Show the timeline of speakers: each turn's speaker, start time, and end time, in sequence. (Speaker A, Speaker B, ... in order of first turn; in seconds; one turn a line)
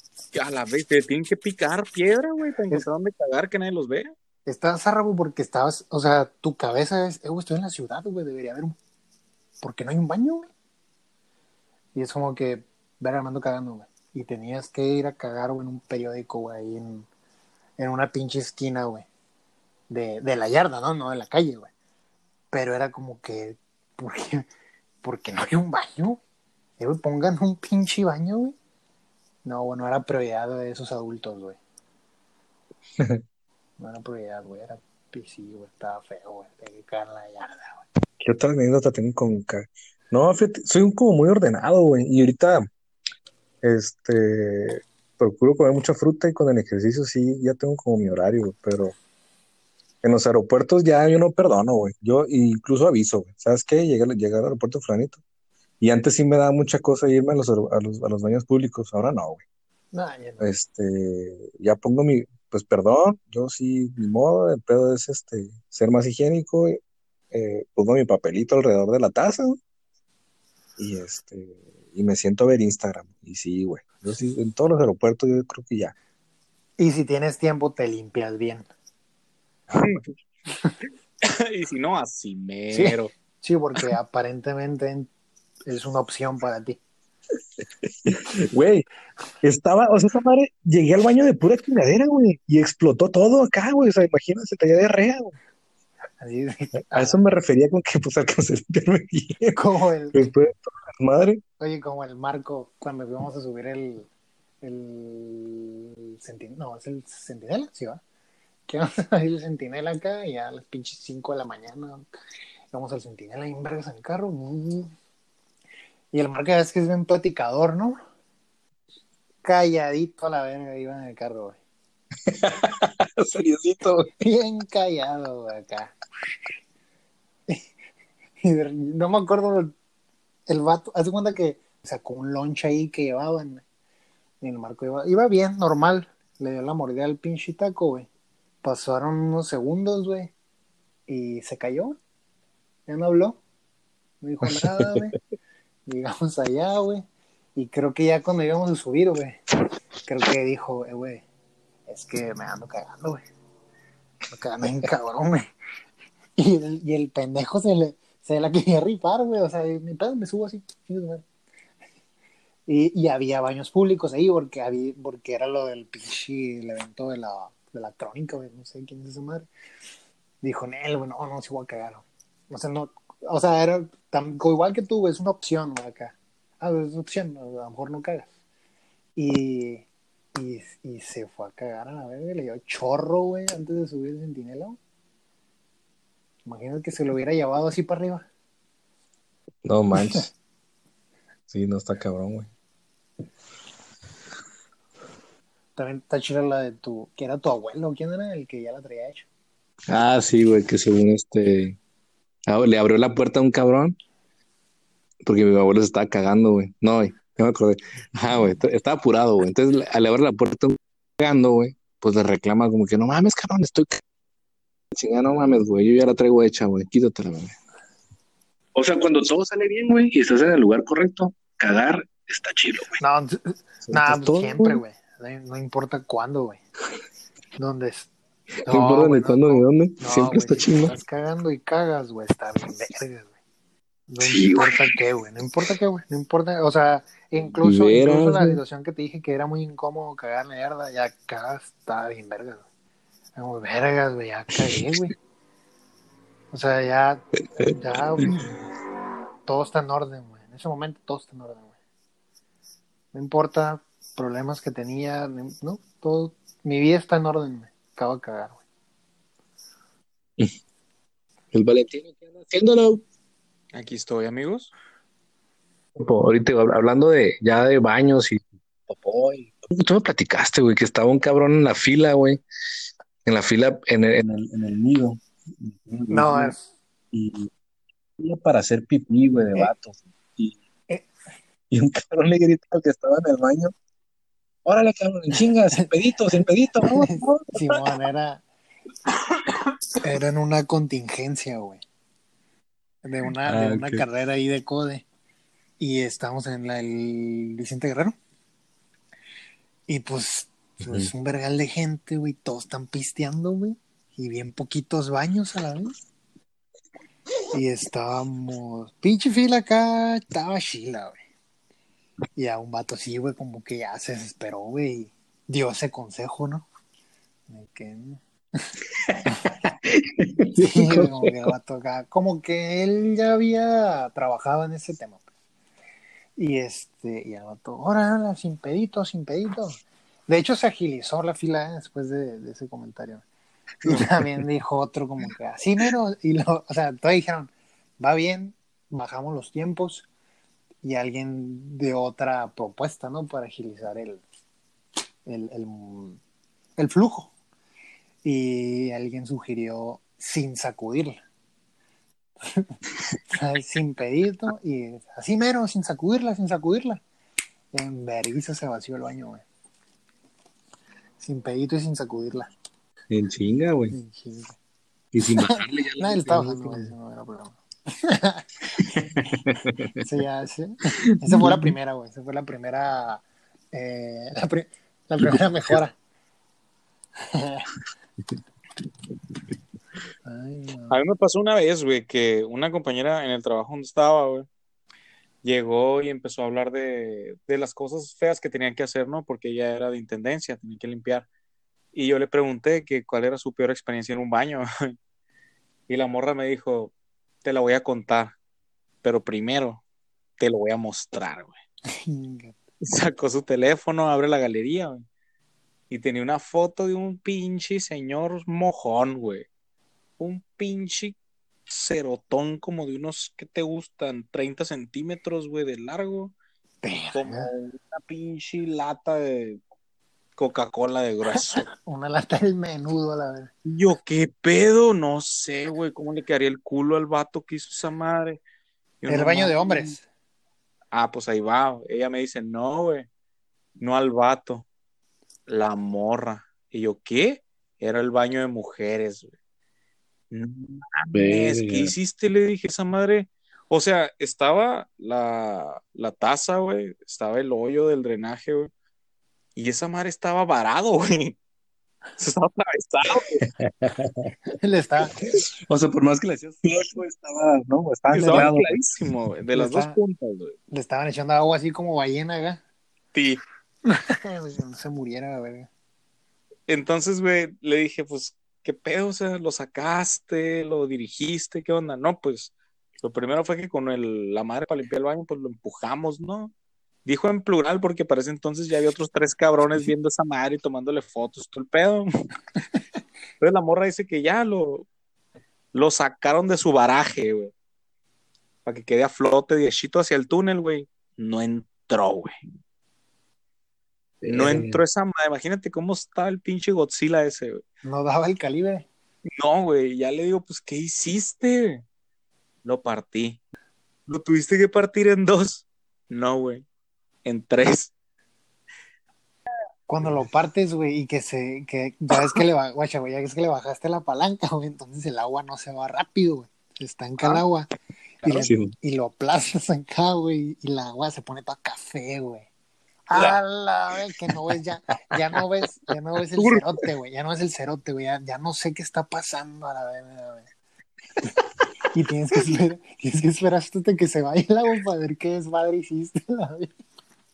Speaker A: 0.3-4.1
Speaker B: 4.5-8.8
Speaker B: 9.6-10.5
Speaker B: 11.9-17.1
Speaker B: 17.8-19.1
Speaker B: 19.9-21.7
Speaker B: 22.5-24.5
Speaker B: 25.0-26.2
Speaker B: 26.8-28.5
Speaker B: 29.4-31.6
Speaker B: 33.8-37.8
Speaker C: 38.2-42.7
Speaker C: 43.6-48.9
Speaker C: 50.0-55.2
Speaker C: 55.8-59.4
Speaker B: 59.9-60.5
Speaker C: 60.4-66.8
Speaker C: 67.3-69.6
Speaker C: 70.8-75.9
Speaker B: 76.8-78.7
Speaker A: 79.7-80.0
Speaker A: 81.2-83.1
Speaker B: 82.7-85.1
Speaker B: 85.7-86.8
Speaker C: 88.0-88.8
Speaker C: 89.4-95.3
Speaker B: 96.2-97.2
Speaker C: 96.9-99.6
Speaker B: 99.5-100.3
Speaker C: 100.1-101.4
Speaker B: 101.6-104.1
Speaker B: 104.6-108.0
Speaker B: 108.7-112.0
Speaker B: 112.7-114.9
Speaker B: 116.1-118.0
Speaker B: 119.4-121.6
Speaker C: 122.3-124.1
Speaker B: 124.2-125.9
Speaker B: 128.4-129.7
Speaker B: 130.5-133.6
Speaker B: 134.4-138.1
Speaker B: 138.6-140.3
Speaker B: 141.1-142.0
Speaker B: 142.9-143.4
Speaker B: 144.2-145.2
Speaker C: 144.4-145.1
Speaker B: 145.9-149.4
Speaker B: 150.0-151.2
Speaker B: 151.9-153.2
Speaker B: 154.3-155.5
Speaker B: 156.4-161.2
Speaker B: 162.7-169.5
Speaker B: 170.4-178.3
Speaker B: 179.2-184.8
Speaker B: 186.4-188.2
Speaker C: 189.6-190.3
Speaker C: 191.5-192.5
Speaker B: 195.8-199.3
Speaker C: 199.9-201.8
Speaker C: 202.5-204.0
Speaker C: 205.2-214.0
Speaker C: 214.9-217.6
Speaker C: 218.7-223.0
Speaker B: 223.0-226.6
Speaker C: 223.8-224.8
Speaker B: 227.6-228.1
Speaker C: 228.6-230.9
Speaker B: 228.7-233.3
Speaker B: 234.1-242.6
Speaker C: 234.2-234.8
Speaker C: 237.6-238.6
Speaker B: 243.3-245.1
Speaker B: 246.5-248.5
Speaker C: 247.6-248.3
Speaker B: 249.4-251.7
Speaker B: 253.1-258.6
Speaker C: 261.5-263.0
Speaker A: 263.7-264.7
Speaker C: 265.9-272.4
Speaker C: 273.2-276.5
Speaker B: 276.1-276.6
Speaker C: 277.1-277.5
Speaker C: 278.2-280.6
Speaker C: 281.7-283.7
Speaker C: 284.6-287.8
Speaker B: 286.8-288.4
Speaker B: 290.0-291.8
Speaker B: 293.0-295.0
Speaker C: 293.4-294.0
Speaker B: 295.8-298.2
Speaker B: 299.9-305.9
Speaker B: 307.5-311.2
Speaker B: 312.4-316.6
Speaker B: 317.5-318.2
Speaker C: 319.0-321.5
Speaker B: 319.3-319.5
Speaker B: 320.6-325.2
Speaker B: 326.4-333.2
Speaker B: 333.8-340.1
Speaker C: 333.9-334.3
Speaker B: 340.8-344.2
Speaker B: 345.2-346.2
Speaker B: 346.8-347.3
Speaker B: 348.2-351.2
Speaker B: 352.5-352.7
Speaker B: 353.3-357.0
Speaker B: 357.7-359.4
Speaker B: 361.2-362.5
Speaker C: 363.1-363.9
Speaker B: 363.9-364.6
Speaker C: 365.1-366.9
Speaker B: 365.4-368.4
Speaker C: 368.7-369.9
Speaker B: 370.0-375.9
Speaker C: 371.2-371.7
Speaker C: 375.2-375.8
Speaker B: 377.3-377.7
Speaker B: 380.2-381.0
Speaker A: 380.9-384.5
Speaker A: 385.4-391.2
Speaker A: 391.9-394.9
Speaker A: 395.9-396.9
Speaker A: 397.4-398.4
Speaker A: 399.0-399.8
Speaker A: 400.4-401.5
Speaker B: 401.9-402.6
Speaker A: 402.8-405.1
Speaker A: 405.9-409.5
Speaker A: 410.2-411.2
Speaker A: 411.7-416.3
Speaker B: 416.8-417.5
Speaker A: 417.1-419.6
Speaker A: 420.4-421.6
Speaker B: 421.3-423.5
Speaker A: 423.6-428.4
Speaker A: 429.0-429.9
Speaker B: 429.1-430.0
Speaker A: 430.9-433.1
Speaker A: 433.8-434.6
Speaker A: 435.5-439.3
Speaker A: 440.3-448.7
Speaker C: 441.1-441.9
Speaker A: 449.6-451.4
Speaker A: 452.2-453.4
Speaker C: 453.4-454.3
Speaker B: 454.6-455.2
Speaker C: 455.3-458.8
Speaker B: 458.1-458.5
Speaker A: 458.1-460.6
Speaker B: 459.5-460.0
Speaker B: 460.7-462.6
Speaker A: 463.1-463.4
Speaker B: 463.9-465.7
Speaker A: 466.7-476.5
Speaker A: 477.0-482.1
Speaker A: 483.4-484.9
Speaker A: 485.7-487.5
Speaker A: 488.6-492.4
Speaker C: 494.2-494.8
Speaker A: 494.3-497.6
Speaker B: 497.8-498.9
Speaker A: 499.2-501.8
Speaker A: 502.6-503.4
Speaker A: 504.1-506.6
Speaker A: 507.2-507.9
Speaker B: 509.9-517.7
Speaker B: 518.2-522.5
Speaker C: 518.3-518.7
Speaker B: 523.1-530.5
Speaker A: 523.1-523.4
Speaker A: 526.4-526.6
Speaker B: 531.9-536.7